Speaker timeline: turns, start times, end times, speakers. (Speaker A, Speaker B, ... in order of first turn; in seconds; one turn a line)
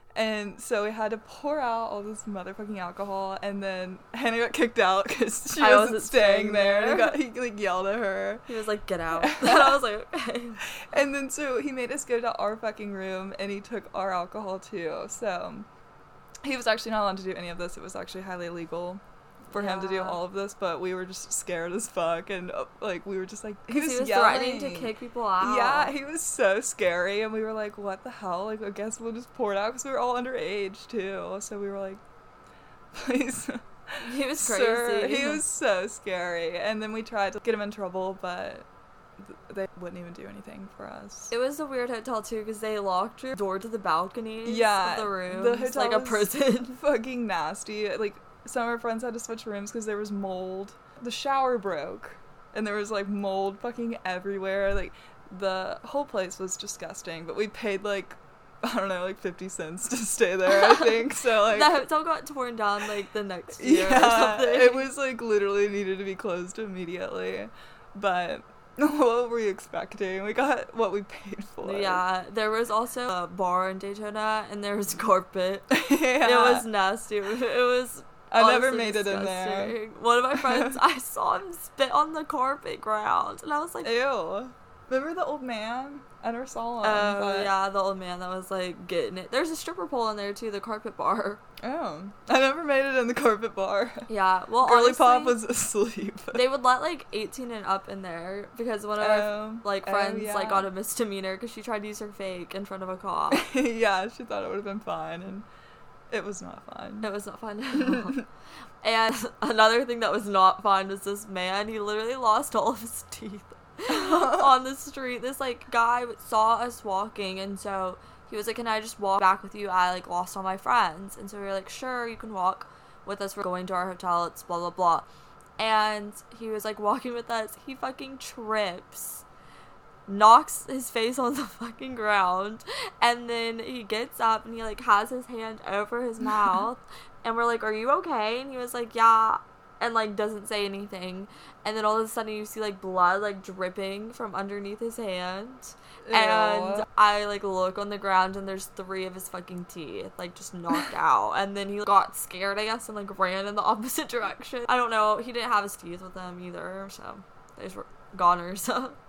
Speaker A: 0.1-8.5
Speaker B: 5.6-7.2
Speaker B: 8.5-10.6
Speaker A: 9.1-9.8
Speaker A: 10.7-15.7
Speaker A: 16.4-32.0
Speaker B: 19.5-20.2
Speaker B: 23.7-25.9
Speaker A: 32.9-33.6
Speaker B: 34.0-35.5
Speaker A: 34.4-38.7
Speaker A: 39.2-41.3
Speaker B: 41.3-46.8
Speaker A: 44.5-61.9
Speaker B: 60.8-64.9
Speaker A: 63.6-72.0
Speaker B: 71.6-83.9
Speaker A: 75.7-76.7
Speaker A: 78.3-79.8
Speaker A: 80.3-80.8
Speaker A: 83.8-87.5
Speaker B: 86.8-91.4
Speaker A: 91.6-94.1
Speaker B: 94.1-95.4
Speaker A: 94.6-96.5
Speaker B: 96.3-103.5
Speaker A: 99.0-100.7
Speaker A: 103.3-105.5
Speaker A: 106.1-107.1
Speaker B: 107.0-108.2
Speaker A: 107.8-108.2
Speaker B: 108.8-125.1
Speaker A: 113.9-114.5
Speaker B: 125.6-129.2
Speaker B: 130.1-159.0
Speaker A: 146.1-146.9